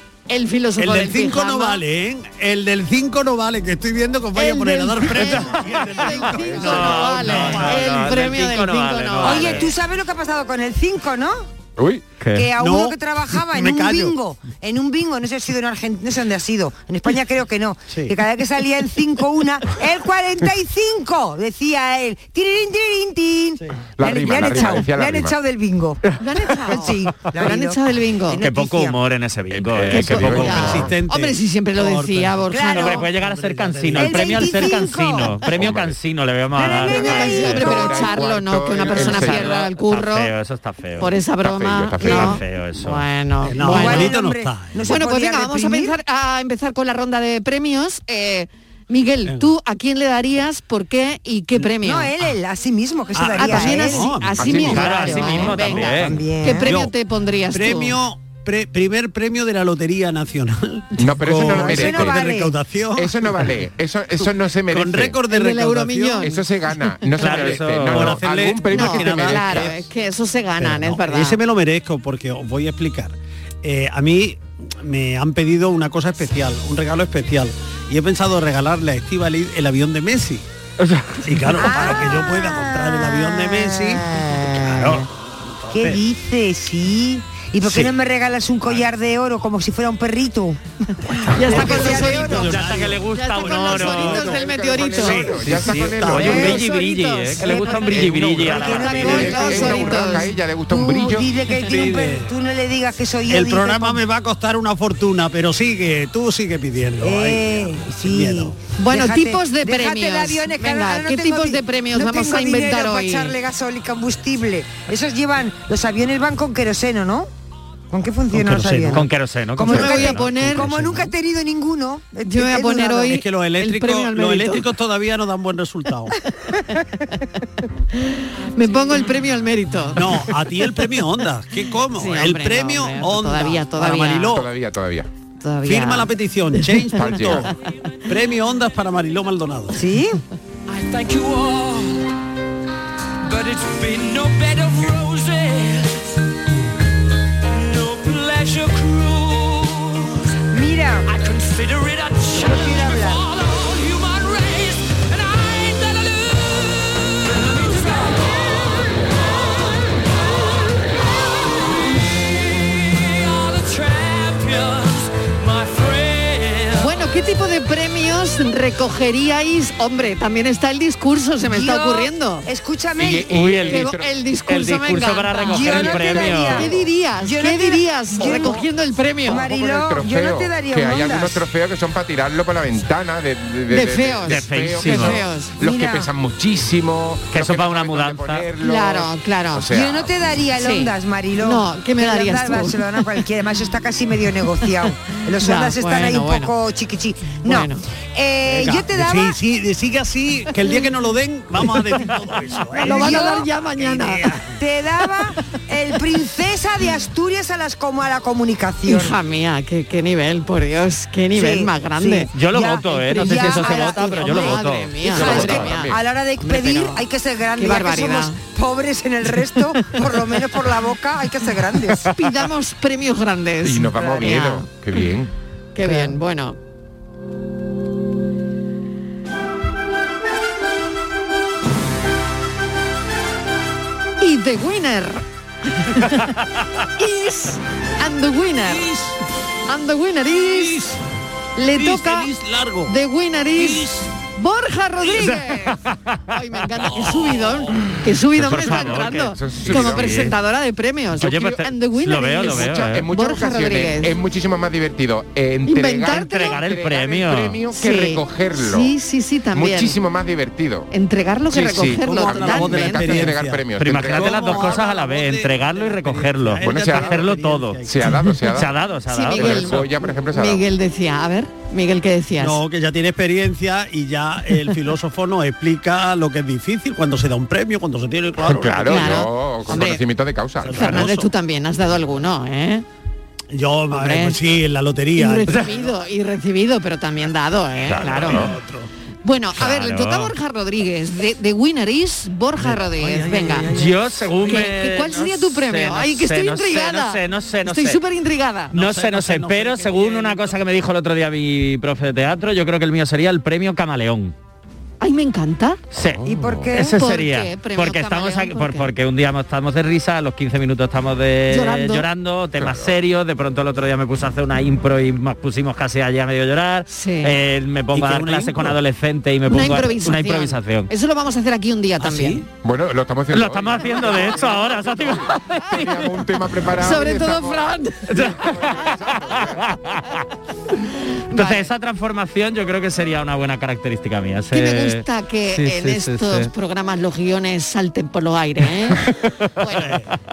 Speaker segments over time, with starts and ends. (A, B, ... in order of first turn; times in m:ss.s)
0:00.3-0:01.8 A
0:00.8-0:08.1 B
0:04.4-0:09.7 A
0:05.2-0:05.5 C
0:06.2-0:07.1 D
0:06.5-0:09.7 C
0:09.2-0:11.5 E
0:11.8-0:12.0 D
0:12.2-0:12.5 C
0:12.3-0:26.0 E
0:12.6-0:14.1 B
0:17.9-0:18.1 B
0:24.0-0:25.4 D
0:26.2-0:28.4 A
0:26.5-0:29.0 E
0:28.4-0:30.9 C
0:29.6-0:30.9 D
0:29.9-0:33.1 A
0:29.9-0:34.8 B
0:32.5-0:33.0 E
0:32.8-0:37.8 C
0:33.9-0:35.4 E
0:35.5-0:36.0 D
0:36.5-0:38.1 E
0:36.8-0:40.3 A
0:36.9-0:39.5 D
0:38.8-0:41.2 C
0:41.0-0:44.2 A
0:41.4-0:42.4 D
0:42.0-0:43.0 C
0:42.0-0:42.3 E
0:43.4-0:44.9 B
0:43.6-0:46.0 E
0:44.9-0:52.1 A
0:49.2-0:49.5 B
0:51.8-0:54.2 E
0:53.1-0:55.0 B
0:53.3-0:58.0 A
0:54.4-0:54.9 D
0:54.5-0:56.2 C
0:54.7-0:56.8 E
0:56.6-0:56.9 B
0:57.5-1:03.6 B
1:00.9-1:02.2 D
1:01.4-1:02.6 E
1:02.9-1:05.2 D
1:04.2-1:06.3 B
1:05.3-1:06.5 A
1:06.2-1:09.8 D
1:07.2-1:08.2 C
1:07.2-1:09.7 B
1:08.7-1:11.4 A
1:10.6-1:20.4 B
1:20.8-1:21.2 C
1:21.2-1:26.0 B
1:21.6-1:24.9 E
1:25.7-1:30.6 E
1:27.6-1:27.9 B
1:31.3-1:36.5 B
1:31.3-1:35.4 A
1:31.3-1:32.5 E
1:31.5-1:34.4 C
1:34.3-1:36.6 D
1:35.4-1:39.7 C
1:36.1-1:36.6 E
1:36.4-1:40.4 A
1:37.4-1:41.3 D
1:38.4-1:44.0 E
1:41.6-1:42.3 B
1:43.3-1:48.6 B
1:47.0-1:57.3 E
1:48.8-1:53.3 A
1:57.9-2:03.2 E
1:58.3-1:59.0 B
1:58.9-2:00.4 C
1:59.7-2:00.7 A
2:00.5-2:01.1 B
2:02.2-2:04.6 A
2:03.0-2:06.1 B
2:08.0-2:10.8 A
2:09.9-2:14.4 B
2:11.9-2:14.3 A
2:14.3-2:15.1 D
2:15.4-2:17.6 A
2:15.6-2:17.5 B
2:16.9-2:17.5 D
2:18.1-2:19.8 B
2:19.7-2:20.2 E
2:20.7-2:22.1 F
2:23.2-2:26.2 F
2:27.4-2:30.3 F
2:30.5-2:31.1 E
2:31.1-2:47.0 F
2:32.4-2:33.2 E
2:46.8-2:52.4 A
2:51.5-2:53.3 E
2:53.0-2:54.1 D
2:53.3-2:53.9 C
2:53.7-2:59.5 A
2:54.5-2:56.7 C
2:55.5-2:58.6 E
2:59.2-3:01.4 E
2:59.4-3:10.1 D
3:03.7-3:05.6 A
3:04.3-3:05.2 C
3:05.6-3:06.1 E
3:07.3-3:08.5 C
3:08.6-3:09.7 A
3:09.7-3:19.4 E
3:10.6-3:13.1 A
3:15.4-3:16.5 A
3:17.4-3:17.8 A
3:18.5-3:24.5 B
3:22.8-3:24.3 A
3:22.8-3:23.5 E
3:24.6-3:29.2 E
3:28.9-3:32.3 A
3:31.3-3:42.1 E
3:32.3-3:35.7 C
3:33.1-3:37.0 A
3:35.1-3:36.0 D
3:37.6-3:38.4 A
3:42.1-3:45.0 A
3:43.6-3:45.3 D
3:45.7-3:46.6 A
3:54.2-3:55.2 A
3:55.8-3:56.2 A
3:57.0-3:58.9 A
3:58.7-3:59.1 F
3:59.7-4:00.9 A
4:01.6-4:02.3 A
4:01.7-4:02.9 B
4:02.9-4:05.8 A
4:05.1-4:06.2 C
4:06.3-4:14.2 A
4:08.4-4:10.4 C
4:08.5-4:10.3 D
4:11.2-4:13.1 C
4:12.5-4:18.9 D
4:15.6-4:16.6 A
4:16.1-4:17.6 C
4:17.8-4:20.0 A
4:19.5-4:20.9 D
4:20.9-4:23.3 A
4:21.5-4:24.8 D
4:21.6-4:28.2 B
4:23.8-4:27.8 C
4:26.6-4:27.3 D
4:27.8-4:28.7 D
4:28.5-4:29.8 C
4:29.1-4:32.6 A
4:29.3-4:30.7 D
4:32.4-4:39.2 B
4:38.4-4:41.0 D
4:38.9-4:40.0 A
4:40.6-4:41.3 B
4:40.7-4:42.8 A
4:43.5-4:45.8 B
4:43.9-4:44.4 A
4:45.1-4:48.5 A
4:47.8-4:48.5 D
4:48.0-4:48.9 B
4:49.2-4:53.7 A
4:49.6-4:50.3 C
4:52.6-4:54.2 B
4:53.7-4:58.0 C
4:54.4-4:58.8 A
4:58.7-5:00.6 B
4:58.7-5:04.3 C
5:05.0-5:05.8 A
5:05.9-5:20.9 C
5:06.2-5:06.7 D
5:06.2-5:07.0 E
5:06.8-5:08.9 A
5:11.5-5:12.0 A
5:12.6-5:13.0 D
5:16.9-5:17.4 A
5:17.9-5:18.8 B
5:19.5-5:22.4 A
5:22.0-5:22.4 B
5:22.5-5:29.7 D
5:23.3-5:25.4 C
5:25.7-5:26.0 A
5:26.8-5:28.3 A
5:28.1-5:28.9 C
5:29.7-5:29.9 C
5:31.3-5:31.7 A
5:31.3-5:36.5 C
5:34.5-5:39.0 A
5:39.6-5:40.0 A
5:39.8-5:40.1 B